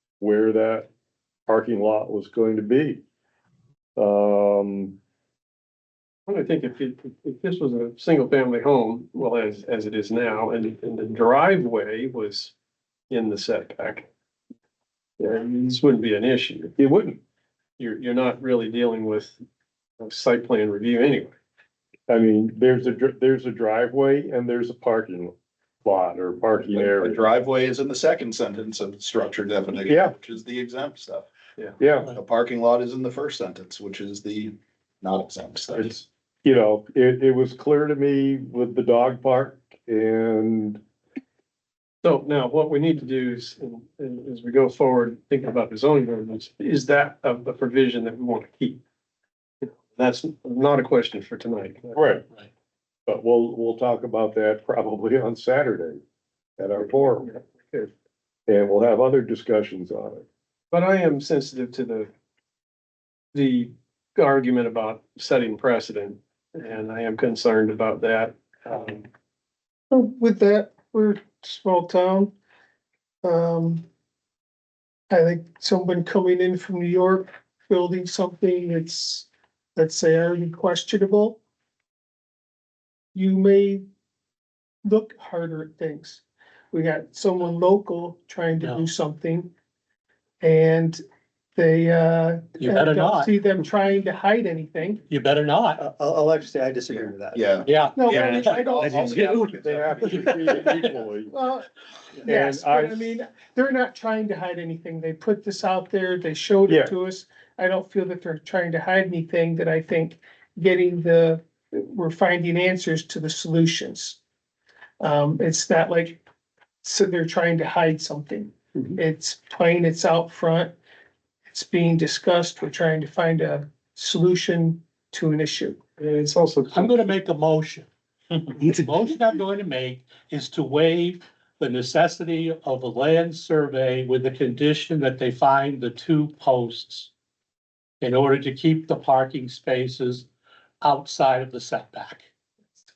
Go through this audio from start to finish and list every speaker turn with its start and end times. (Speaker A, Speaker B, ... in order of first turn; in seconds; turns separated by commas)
Speaker A: 0.2-0.9, Speaker A: 1.5-3.0, Speaker A: 4.0-5.0, Speaker B: 6.3-12.5, Speaker B: 13.1-14.1, Speaker B: 15.2-16.7, Speaker A: 16.8-17.2, Speaker B: 17.8-19.4, Speaker B: 20.0-21.4, Speaker A: 22.1-27.2, Speaker C: 26.8-31.3, Speaker A: 29.9-30.1, Speaker A: 31.8-32.1, Speaker C: 32.1-35.9, Speaker A: 35.8-40.8, Speaker B: 42.0-48.8, Speaker B: 49.6-52.0, Speaker A: 51.9-52.2, Speaker A: 53.1-56.0, Speaker A: 56.6-57.4, Speaker B: 57.0-57.9, Speaker A: 58.5-60.3, Speaker B: 60.7-62.1, Speaker B: 63.3-69.1, Speaker D: 69.9-72.3, Speaker D: 73.2-73.9, Speaker D: 75.1-81.4, Speaker D: 83.1-83.8, Speaker D: 84.8-89.5, Speaker E: 88.6-88.9, Speaker D: 90.4-91.0, Speaker D: 91.6-95.0, Speaker E: 92.6-93.3, Speaker E: 95.1-95.8, Speaker F: 95.8-100.8, Speaker C: 96.9-100.0, Speaker E: 97.6-98.6, Speaker D: 98.0-99.0, Speaker A: 99.6-101.3, Speaker E: 100.0-100.8, Speaker D: 101.3-101.7, Speaker D: 102.2-114.2, Speaker A: 102.3-103.0, Speaker A: 106.7-106.9, Speaker D: 115.0-116.2, Speaker D: 116.8-120.8, Speaker D: 121.5-125.8, Speaker B: 126.0-127.1, Speaker E: 126.7-127.9, Speaker E: 128.5-137.1, Speaker E: 138.0-140.3, Speaker E: 140.8-142.3